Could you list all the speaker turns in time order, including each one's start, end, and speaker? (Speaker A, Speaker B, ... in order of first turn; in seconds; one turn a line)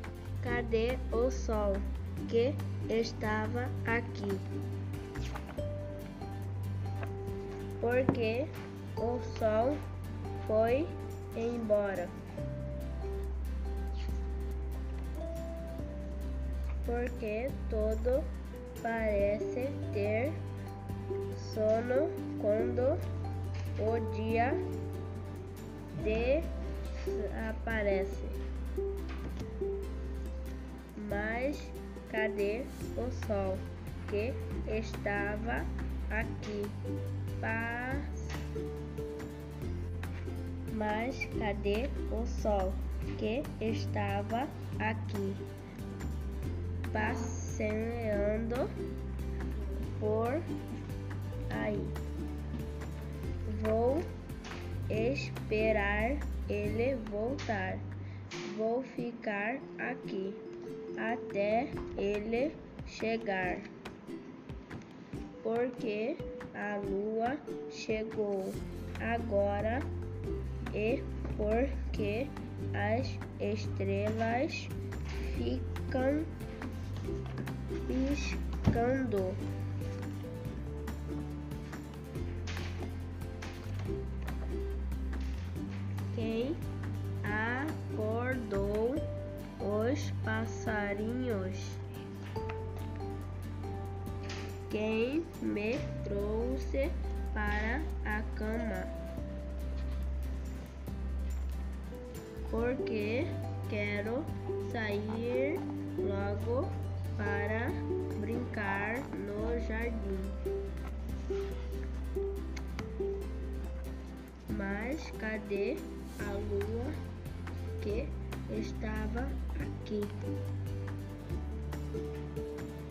Speaker A: 0.4-4.4
Speaker A: 7.8-9.8
Speaker A: 10.4-12.1
Speaker A: 16.8-18.2
Speaker A: 18.8-20.4
Speaker A: 21.3-23.0
Speaker A: 23.8-24.6
Speaker A: 25.9-28.4
Speaker A: 30.9-36.7
Speaker A: 37.4-38.3
Speaker A: 40.7-45.4
Speaker A: 46.9-48.7
Speaker A: 50.0-50.4
Speaker A: 51.5-52.0
Speaker A: 53.5-54.1
Speaker A: 54.9-57.9
Speaker A: 58.5-60.4
Speaker A: 61.0-63.7
Speaker A: 65.4-69.9
Speaker A: 70.7-76.3
Speaker A: 77.9-79.4
Speaker A: 86.1-86.6
Speaker A: 87.2-89.0
Speaker A: 89.6-91.8
Speaker A: 94.7-98.9
Speaker A: 102.5-110.3
Speaker A: 114.5-116.9
Speaker A: 117.8-120.1